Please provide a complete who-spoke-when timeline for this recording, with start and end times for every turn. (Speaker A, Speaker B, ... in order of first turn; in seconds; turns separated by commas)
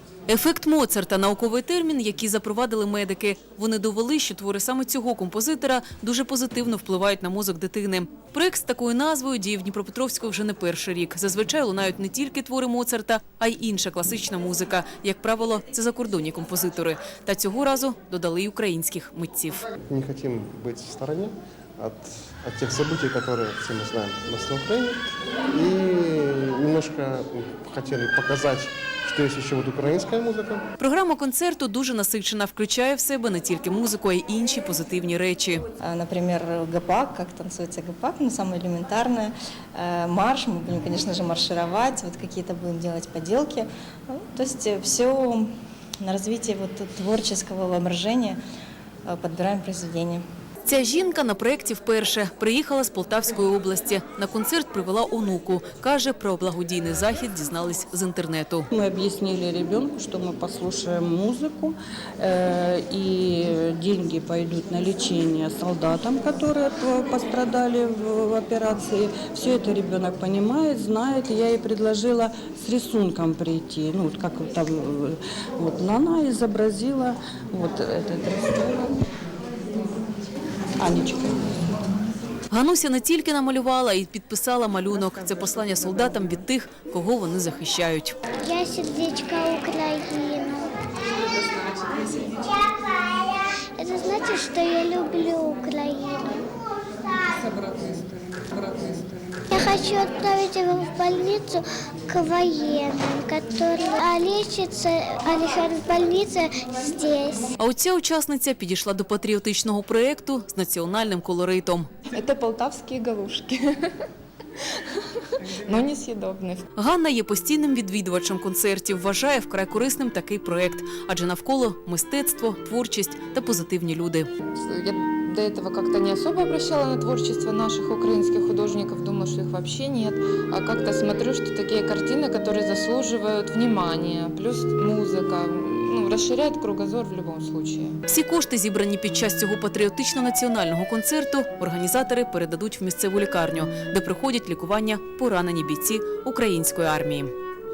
Speaker A: 0.3-19.7, Speaker B: 19.9-30.6, Speaker A: 30.8-35.6, Speaker C: 35.8-45.5, Speaker C: 46.0-48.4, Speaker C: 49.1-50.2, Speaker A: 50.6-58.7, Speaker D: 58.7-79.0, Speaker D: 80.8-81.5, Speaker A: 82.5-88.2, Speaker E: 88.4-90.8, Speaker E: 92.3-96.5, Speaker E: 99.5-107.5, Speaker A: 107.6-111.9, Speaker F: 112.1-113.9, Speaker F: 115.4-116.7, Speaker A: 116.8-124.3, Speaker F: 124.5-138.0, Speaker A: 138.1-147.3